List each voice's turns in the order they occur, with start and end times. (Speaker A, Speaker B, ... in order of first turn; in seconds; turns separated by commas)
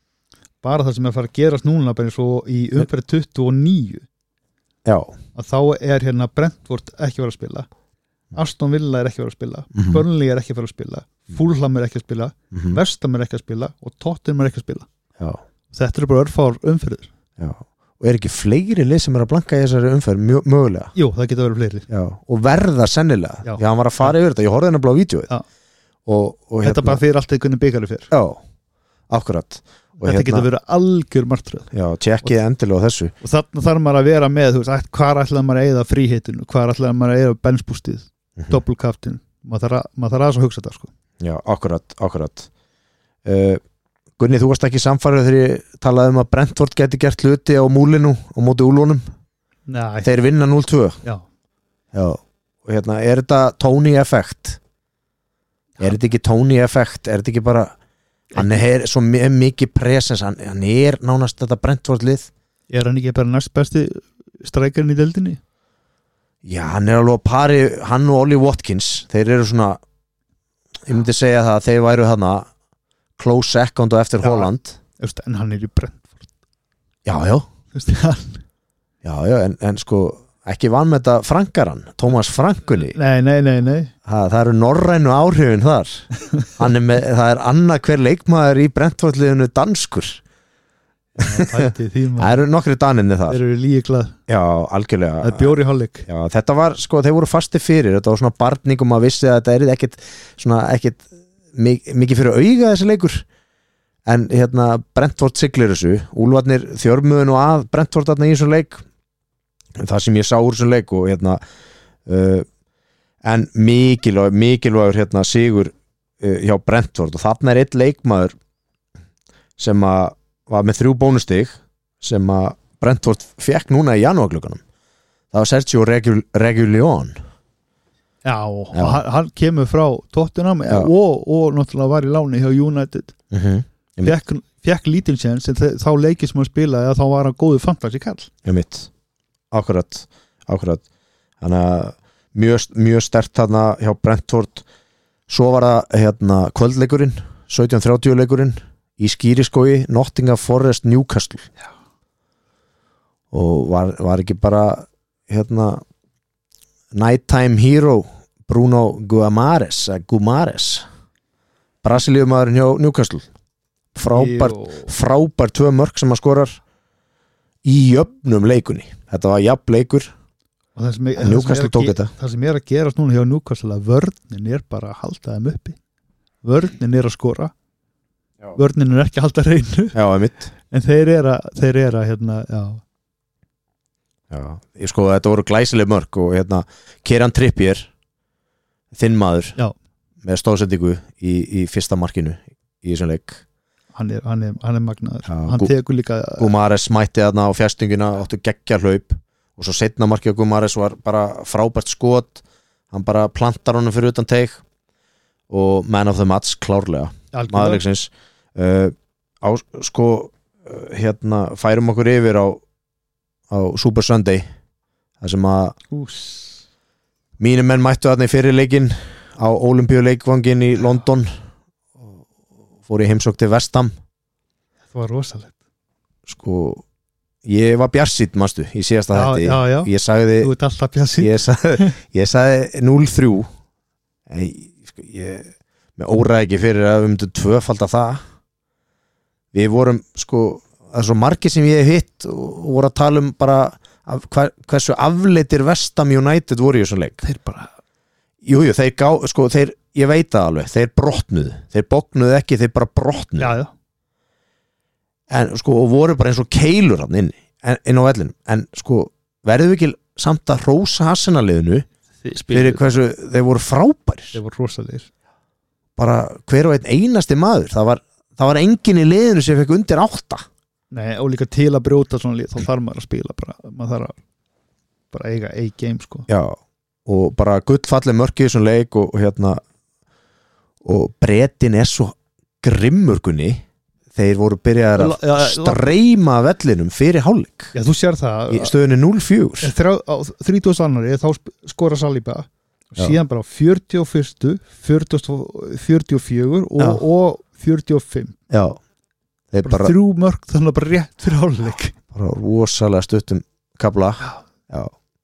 Speaker A: 0.6-4.1, Speaker B: 4.8-5.2, Speaker A: 5.3-7.7, Speaker A: 8.3-14.9, Speaker B: 9.8-10.0, Speaker B: 12.5-12.8, Speaker A: 15.7-17.1, Speaker B: 17.4-20.9, Speaker A: 21.0-21.9, Speaker B: 21.9-25.3, Speaker A: 23.4-24.1, Speaker B: 26.1-27.0, Speaker A: 26.6-28.1, Speaker B: 28.1-28.4, Speaker B: 29.1-30.5, Speaker A: 30.0-31.7, Speaker B: 31.7-33.1, Speaker A: 33.2-40.9, Speaker B: 41.2-42.5, Speaker B: 43.2-43.6, Speaker B: 44.2-49.0, Speaker A: 49.7-50.1, Speaker B: 50.0-51.0, Speaker B: 51.9-54.6, Speaker B: 55.8-57.7, Speaker A: 58.3-58.6, Speaker B: 58.4-62.3, Speaker A: 62.7-65.4, Speaker B: 66.4-69.8, Speaker B: 70.9-72.5, Speaker B: 73.2-74.8, Speaker A: 74.2-76.3, Speaker B: 77.0-77.5, Speaker A: 77.7-78.4, Speaker B: 79.0-83.0, Speaker A: 82.7-83.9, Speaker B: 84.1-90.2, Speaker A: 91.2-92.4, Speaker B: 91.2-93.4, Speaker A: 93.3-94.2, Speaker B: 94.3-95.6, Speaker A: 95.2-96.1, Speaker B: 96.1-103.2, Speaker B: 104.1-108.8, Speaker B: 109.8-111.4, Speaker B: 112.1-112.5, Speaker B: 113.2-118.3, Speaker B: 119.6-124.6, Speaker B: 125.3-127.2, Speaker A: 128.2-133.1, Speaker B: 128.7-129.0, Speaker B: 133.3-134.1, Speaker A: 134.0-138.3, Speaker B: 138.4-138.9, Speaker B: 139.5-140.8, Speaker B: 141.4-144.6, Speaker B: 145.3-151.5, Speaker B: 153.3-155.8, Speaker B: 156.9-160.8, Speaker B: 161.8-163.3, Speaker B: 163.9-166.6, Speaker A: 164.1-164.9, Speaker B: 167.6-170.1, Speaker A: 170.8-175.8, Speaker B: 171.2-172.1, Speaker A: 176.4-177.5, Speaker A: 178.6-180.0, Speaker B: 179.9-180.5, Speaker A: 180.7-182.8, Speaker B: 184.3-187.9, Speaker B: 188.9-189.6, Speaker B: 190.2-193.4, Speaker A: 193.9-196.5, Speaker B: 195.3-195.7, Speaker B: 196.4-204.6, Speaker B: 205.5-212.6, Speaker A: 207.3-207.8, Speaker B: 213.5-214.5, Speaker B: 215.2-215.8, Speaker A: 215.9-216.6, Speaker B: 217.4-221.3, Speaker B: 222.9-223.9, Speaker A: 224.9-225.5, Speaker B: 226.3-226.8, Speaker B: 227.5-230.5, Speaker A: 229.1-231.9, Speaker B: 231.2-233.5, Speaker B: 234.3-238.2, Speaker B: 239.5-247.2, Speaker A: 247.2-247.7, Speaker B: 248.4-253.5, Speaker A: 253.4-253.7, Speaker B: 255.3-261.9, Speaker A: 262.2-262.9, Speaker B: 262.5-264.4, Speaker A: 264.3-265.1, Speaker B: 266.0-270.5, Speaker A: 270.9-274.2, Speaker A: 275.1-276.3, Speaker B: 276.3-279.6, Speaker B: 280.8-283.6, Speaker B: 284.1-287.7, Speaker A: 285.0-285.9, Speaker A: 287.7-288.7, Speaker B: 288.5-289.7, Speaker A: 289.6-298.4, Speaker B: 298.5-298.8, Speaker B: 299.5-299.9, Speaker A: 299.6-301.9, Speaker B: 302.1-304.9